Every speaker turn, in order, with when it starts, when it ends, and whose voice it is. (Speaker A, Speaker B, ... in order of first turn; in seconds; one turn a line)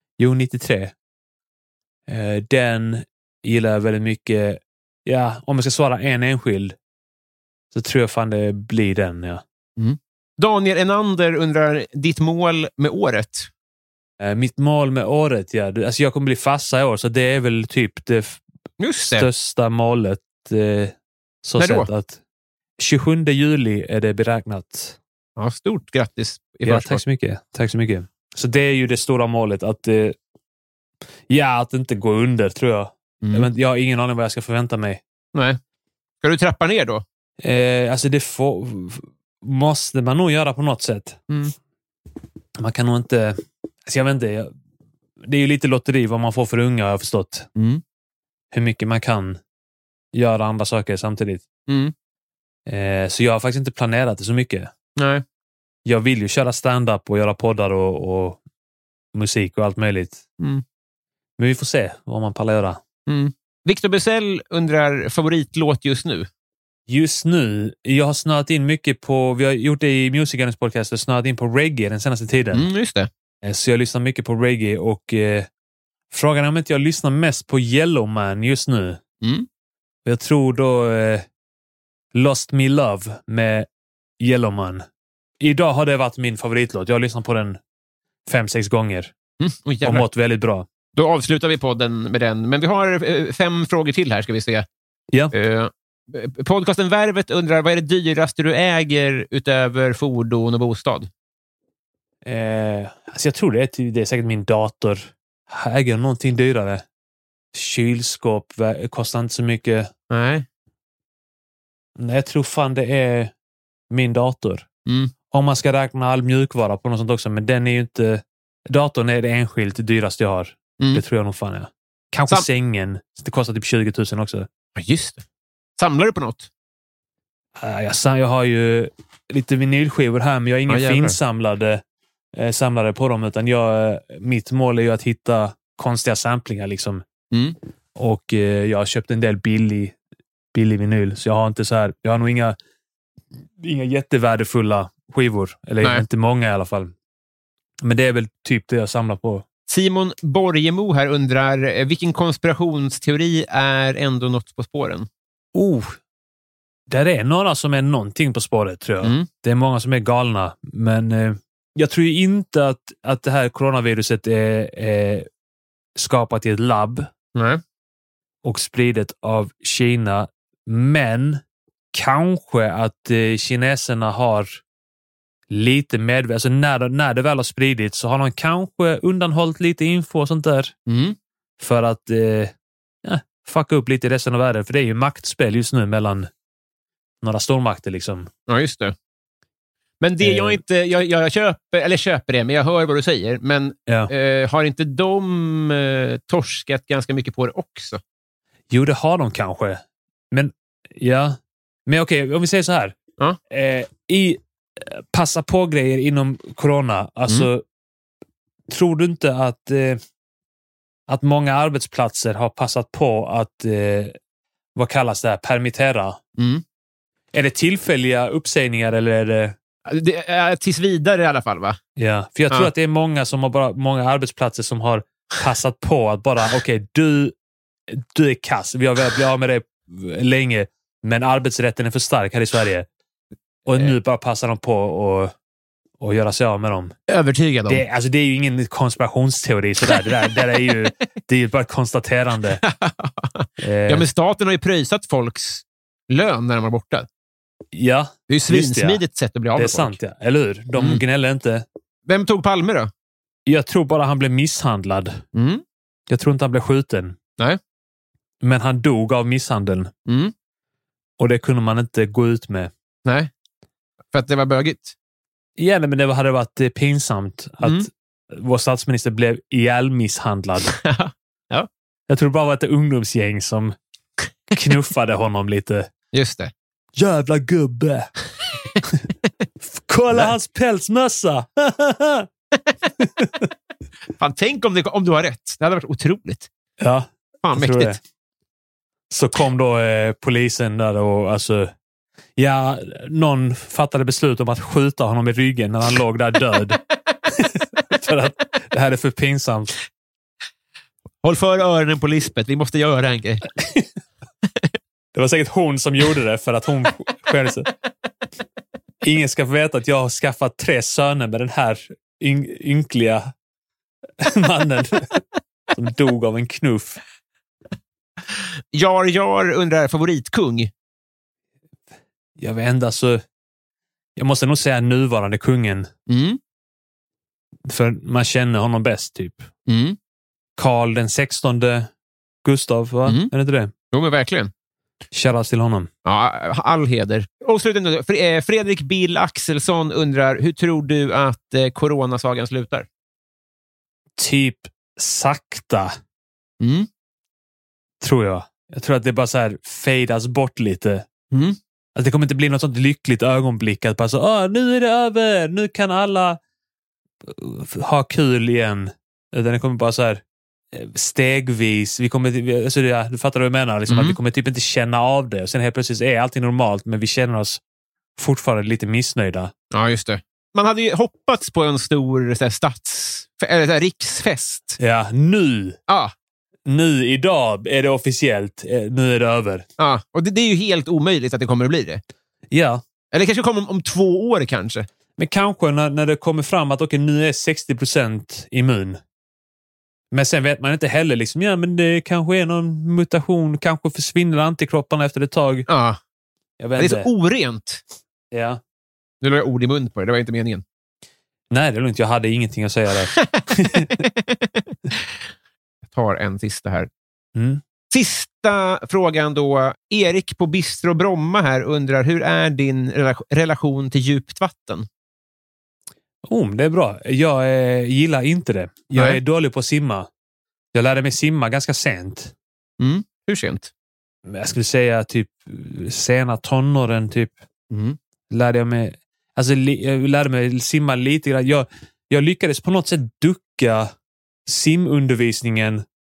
Speaker A: 0.2-0.9
Speaker A: 2.1-6.8
Speaker A: 7.7-9.4
Speaker B: 9.8-13.5
Speaker A: 14.2-18.4
Speaker B: 18.8-19.3
Speaker A: 19.1-22.2
Speaker B: 21.6-21.9
Speaker A: 22.8-25.0
Speaker B: 25.4-27.0
Speaker A: 26.6-30.1
Speaker A: 31.3-35.0
Speaker B: 33.2-33.5
Speaker B: 36.2-37.0
Speaker A: 37.4-41.2
Speaker A: 42.6-44.5
Speaker A: 45.2-47.5
Speaker B: 47.5-47.8
Speaker A: 48.5-49.4
Speaker A: 50.1-51.4
Speaker B: 51.7-51.9
Speaker A: 52.7-54.7
Speaker B: 55.0-55.2
Speaker A: 55.8-58.4
Speaker A: 59.1-60.2
Speaker A: 61.4-62.8
Speaker B: 63.1-66.3
Speaker A: 66.9-72.7
Speaker B: 72.5-73.1
Speaker A: 73.4-75.5
Speaker A: 76.1-79.0
Speaker B: 79.2-79.5
Speaker A: 80.0-81.2
Speaker A: 82.1-83.7
Speaker A: 84.2-84.8
Speaker A: 85.4-87.6
Speaker A: 88.3-89.1
Speaker B: 89.4-90.0
Speaker A: 89.8-90.7
Speaker B: 90.9-94.7
Speaker B: 95.3-101.1
Speaker A: 102.2-106.8
Speaker A: 107.5-109.9
Speaker B: 110.1-110.5
Speaker A: 112.0-113.3
Speaker A: 113.9-114.7
Speaker B: 114.9-115.1
Speaker A: 115.3-124.5
Speaker B: 124.8-125.2
Speaker B: 125.8-126.5
Speaker A: 127.6-131.8
Speaker B: 130.7-131.2
Speaker A: 132.3-137.0
Speaker A: 137.9-139.9
Speaker A: 140.5-142.6
Speaker A: 143.6-146.9
Speaker A: 147.8-149.4
Speaker B: 149.7-155.1
Speaker A: 155.5-156.0
Speaker A: 156.9-165.3
Speaker B: 159.0-159.3
Speaker A: 166.0-167.1
Speaker B: 167.3-167.6
Speaker A: 168.4-171.4
Speaker A: 171.9-174.6
Speaker A: 175.5-180.7
Speaker B: 180.9-181.2
Speaker A: 181.6-182.5
Speaker A: 183.0-186.3
Speaker A: 187.2-188.3
Speaker B: 188.5-188.9
Speaker B: 190.0-198.0
Speaker A: 190.2-190.6
Speaker A: 198.7-202.9
Speaker A: 203.5-207.6
Speaker A: 208.7-210.0
Speaker A: 211.1-214.1
Speaker A: 214.8-216.2
Speaker B: 216.4-216.6
Speaker A: 217.3-219.6
Speaker B: 219.8-221.8
Speaker A: 222.0-227.3
Speaker A: 227.9-232.9
Speaker A: 233.7-235.3
Speaker A: 236.0-236.9
Speaker B: 237.1-237.8
Speaker A: 237.7-242.6
Speaker B: 239.9-240.7
Speaker B: 242.6-247.1
Speaker A: 243.6-244.1
Speaker A: 247.7-249.0
Speaker B: 248.3-249.9
Speaker A: 249.6-251.6
Speaker B: 250.8-251.0
Speaker B: 252.1-252.9
Speaker A: 253.5-255.2
Speaker B: 255.3-255.6
Speaker A: 256.1-257.1
Speaker A: 258.4-259.9
Speaker B: 260.1-260.3
Speaker A: 261.2-262.7
Speaker B: 263.1-263.3
Speaker B: 264.1-264.9
Speaker A: 265.6-270.7
Speaker B: 267.6-267.9
Speaker B: 270.7-271.7
Speaker A: 272.1-273.8
Speaker A: 274.5-275.9
Speaker B: 276.1-276.5
Speaker A: 276.9-278.1
Speaker A: 279.7-282.3
Speaker A: 283.0-283.4
Speaker B: 284.1-286.5
Speaker A: 286.8-288.0
Speaker B: 287.4-287.9
Speaker A: 289.1-291.7
Speaker A: 292.4-299.7
Speaker B: 301.2-303.4
Speaker A: 303.6-303.9
Speaker A: 305.1-307.7
Speaker A: 309.0-313.3
Speaker A: 314.2-315.2
Speaker A: 315.7-317.0
Speaker B: 318.7-320.7
Speaker A: 322.4-323.2
Speaker A: 324.1-325.9
Speaker B: 326.1-326.4
Speaker A: 327.6-329.5
Speaker B: 329.7-330.0
Speaker A: 330.6-331.9
Speaker A: 332.4-333.7
Speaker B: 333.1-333.3
Speaker B: 333.9-334.5
Speaker A: 335.1-335.9
Speaker B: 336.0-342.9
Speaker A: 344.2-346.0
Speaker B: 346.6-346.9
Speaker A: 348.0-351.1
Speaker B: 351.3-351.6
Speaker A: 351.9-356.4
Speaker A: 357.2-360.2
Speaker A: 360.7-367.6
Speaker B: 363.9-364.2
Speaker A: 368.2-369.5
Speaker B: 369.7-374.8
Speaker A: 374.8-375.8
Speaker B: 375.9-376.1
Speaker A: 376.6-379.6
Speaker B: 379.8-382.0
Speaker A: 382.5-382.8
Speaker B: 383.1-384.9
Speaker A: 385.2-389.0
Speaker A: 390.1-395.7
Speaker B: 395.7-396.0
Speaker A: 396.6-397.1
Speaker B: 396.8-397.8
Speaker A: 398.3-398.6
Speaker B: 399.2-400.6
Speaker A: 401.5-403.9
Speaker B: 403.9-404.7
Speaker B: 405.9-406.9
Speaker A: 407.3-407.6
Speaker B: 407.9-414.9
Speaker A: 416.2-420.1
Speaker B: 418.9-419.2
Speaker A: 420.7-422.3
Speaker B: 422.8-423.7
Speaker A: 424.3-427.4
Speaker B: 427.7-428.0
Speaker A: 428.3-433.9
Speaker A: 434.4-435.8